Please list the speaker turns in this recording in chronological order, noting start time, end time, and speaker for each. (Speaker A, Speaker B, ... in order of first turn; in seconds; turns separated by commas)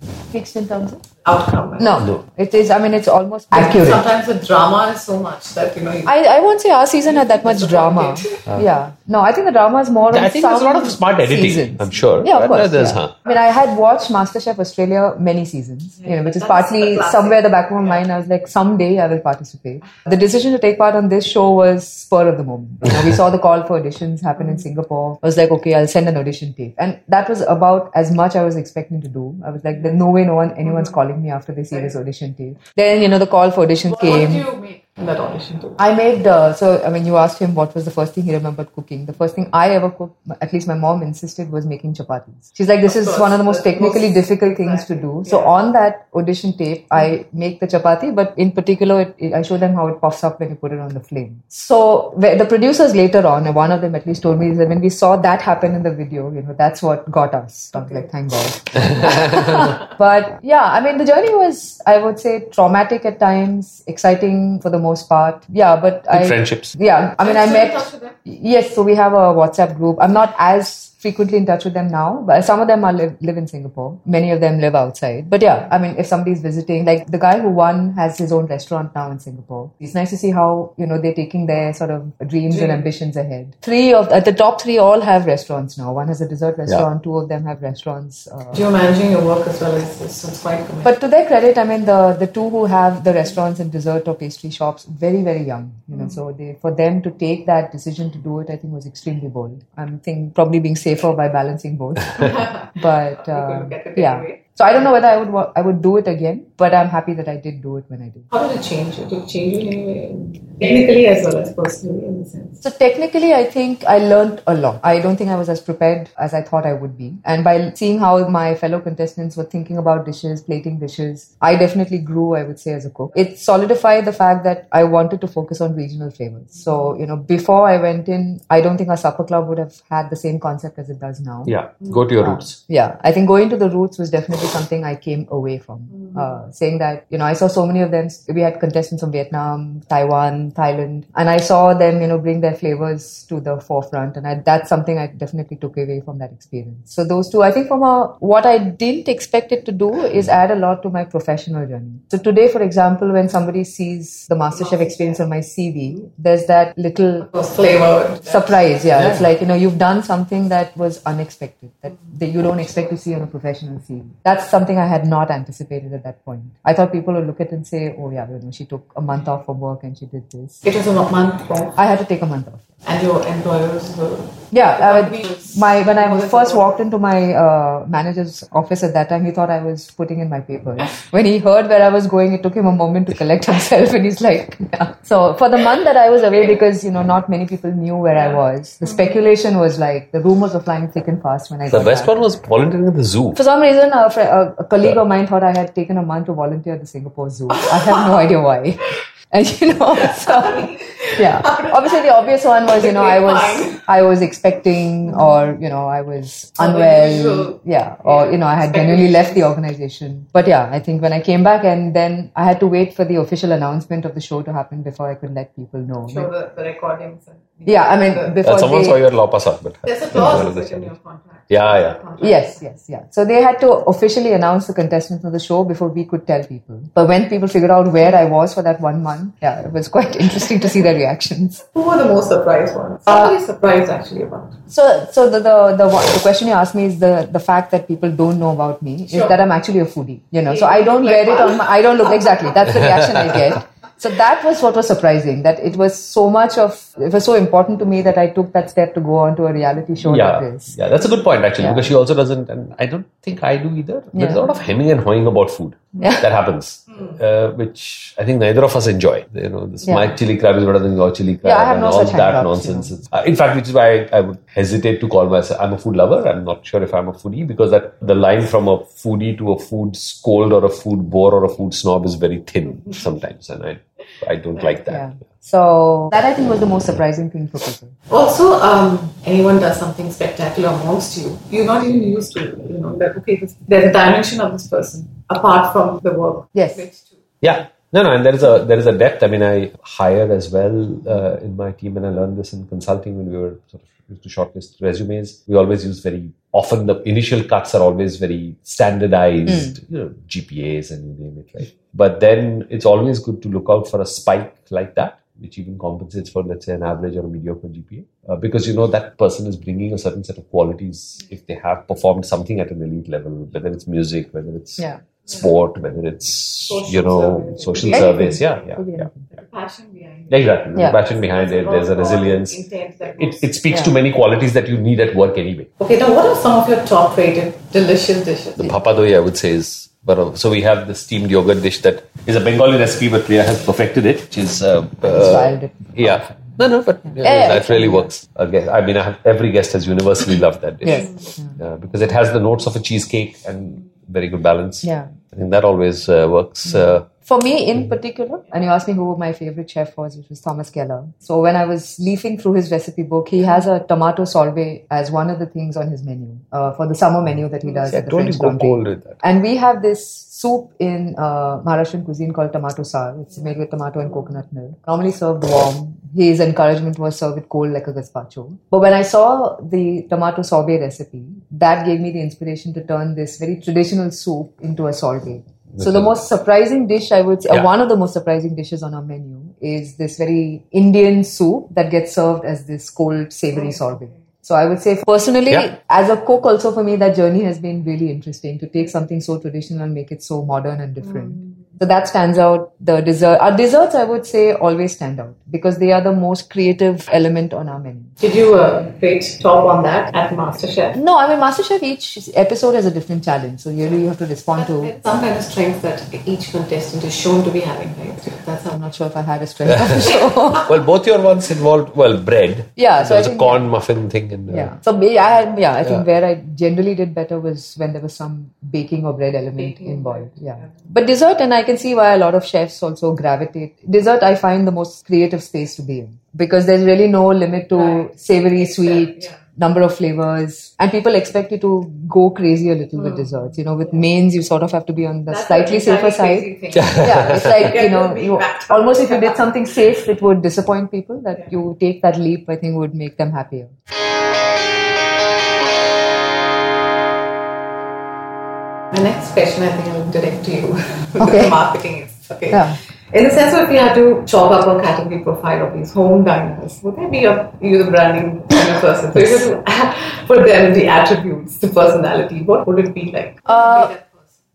Speaker A: 0.3-1.0, Speaker B: 1.2-1.9, Speaker A: 1.8-4.0, Speaker B: 3.5-6.1, Speaker A: 6.0-34.5, Speaker B: 7.1-8.4, Speaker C: 10.1-13.1, Speaker B: 16.0-18.0, Speaker B: 33.8-35.8, Speaker A: 35.8-88.6, Speaker B: 42.8-45.6, Speaker C: 59.0-59.5, Speaker C: 66.1-66.7, Speaker B: 67.2-68.1, Speaker B: 82.5-82.8, Speaker B: 88.5-90.9, Speaker A: 90.8-108.3, Speaker B: 102.2-104.6, Speaker B: 108.3-112.6, Speaker A: 112.6-131.6, Speaker C: 131.4-132.6, Speaker A: 132.2-157.3, Speaker B: 154.6-155.2, Speaker B: 157.2-158.8, Speaker A: 158.2-170.6, Speaker C: 158.9-159.2, Speaker B: 170.6-171.8, Speaker A: 171.8-172.6, Speaker B: 172.8-176.8, Speaker A: 174.5-192.2, Speaker C: 191.7-193.4, Speaker A: 193.3-216.3, Speaker B: 200.0-203.8, Speaker B: 206.6-209.4, Speaker B: 216.1-218.4, Speaker A: 217.7-219.0, Speaker C: 218.4-220.9, Speaker B: 219.8-222.6, Speaker C: 221.5-222.0, Speaker A: 222.2-231.6, Speaker B: 231.7-234.6, Speaker A: 234.7-250.8, Speaker B: 240.5-242.5, Speaker C: 242.7-243.4, Speaker C: 250.0-275.1, Speaker A: 251.6-251.9, Speaker A: 254.1-254.5, Speaker A: 256.0-256.2, Speaker A: 259.8-260.1, Speaker A: 261.4-262.9, Speaker A: 274.9-277.9, Speaker B: 278.1-287.1, Speaker A: 286.5-286.8, Speaker C: 287.4-319.1, Speaker B: 316.6-318.6, Speaker A: 317.9-319.3, Speaker B: 319.4-323.5, Speaker C: 320.3-325.7, Speaker B: 325.8-328.7, Speaker C: 328.6-347.1, Speaker A: 335.0-336.5, Speaker A: 337.0-338.1, Speaker A: 340.8-341.6, Speaker A: 344.8-345.1, Speaker A: 346.7-398.1, Speaker C: 357.9-359.2, Speaker C: 375.7-376.2, Speaker B: 383.6-384.0, Speaker B: 391.1-391.4, Speaker B: 398.2-401.0, Speaker A: 400.9-404.9, Speaker B: 404.6-408.9, Speaker A: 408.7-410.7, Speaker C: 409.7-414.7, Speaker A: 412.8-413.7, Speaker A: 414.5-443.7, Speaker B: 419.6-420.7, Speaker B: 427.7-429.4, Speaker B: 433.0-433.3, Speaker B: 435.3-439.6, Speaker C: 436.8-437.6, Speaker B: 448.9-464.2, Speaker A: 451.2-451.6, Speaker A: 452.5-452.8, Speaker A: 463.5-463.9